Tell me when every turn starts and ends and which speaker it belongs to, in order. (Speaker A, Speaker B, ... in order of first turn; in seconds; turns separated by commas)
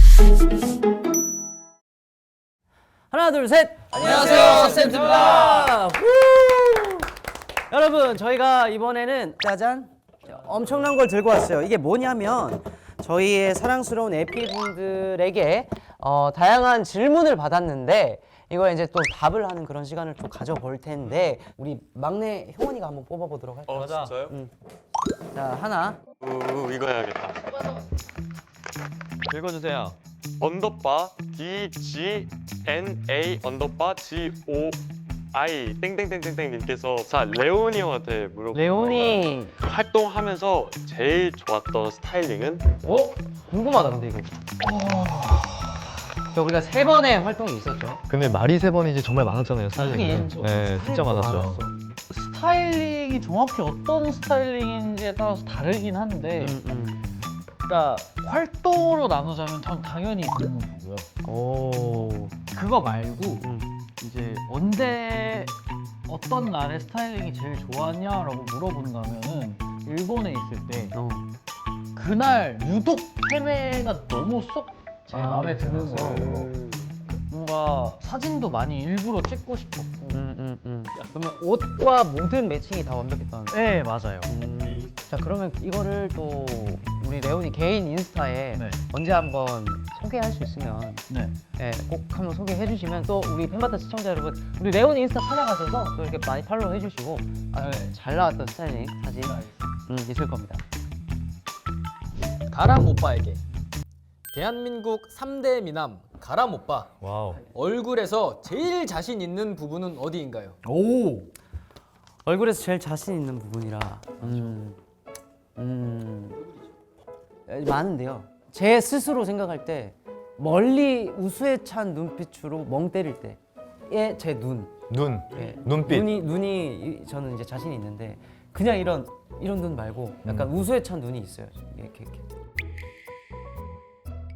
Speaker A: 3.1-7.1, Speaker B: 4.0-5.7, Speaker A: 7.7-24.5, Speaker C: 23.7-24.4, Speaker D: 23.7-24.1, Speaker A: 25.3-26.0, Speaker C: 26.2-27.6, Speaker D: 29.3-30.0, Speaker C: 30.4-34.8, Speaker C: 35.3-42.7, Speaker A: 38.5-39.6, Speaker A: 42.9-44.3, Speaker B: 44.7-45.6, Speaker A: 46.3-48.0, Speaker D: 48.1-51.6, Speaker B: 49.8-50.5, Speaker A: 50.8-51.7, Speaker B: 52.1-56.6, Speaker A: 56.4-57.2, Speaker B: 57.7-61.1, Speaker A: 61.2-62.4, Speaker B: 62.5-65.5, Speaker A: 63.4-63.7, Speaker B: 66.1-71.0, Speaker A: 70.9-71.3, Speaker B: 72.0-76.6, Speaker A: 75.2-76.5, Speaker B: 77.3-80.2, Speaker A: 80.1-83.6, Speaker B: 83.5-84.3, Speaker A: 84.3-91.0, Speaker B: 88.5-88.8, Speaker B: 91.1-91.4, Speaker A: 91.6-100.6, Speaker B: 97.6-97.9, Speaker E: 102.5-103.4, Speaker E: 104.3-110.6, Speaker D: 107.0-107.4, Speaker B: 110.7-111.3, Speaker A: 112.2-114.8, Speaker E: 114.2-114.5, Speaker A: 115.6-116.4, Speaker A: 117.5-124.7, Speaker D: 124.9-126.2, Speaker A: 125.3-132.2, Speaker D: 130.2-130.5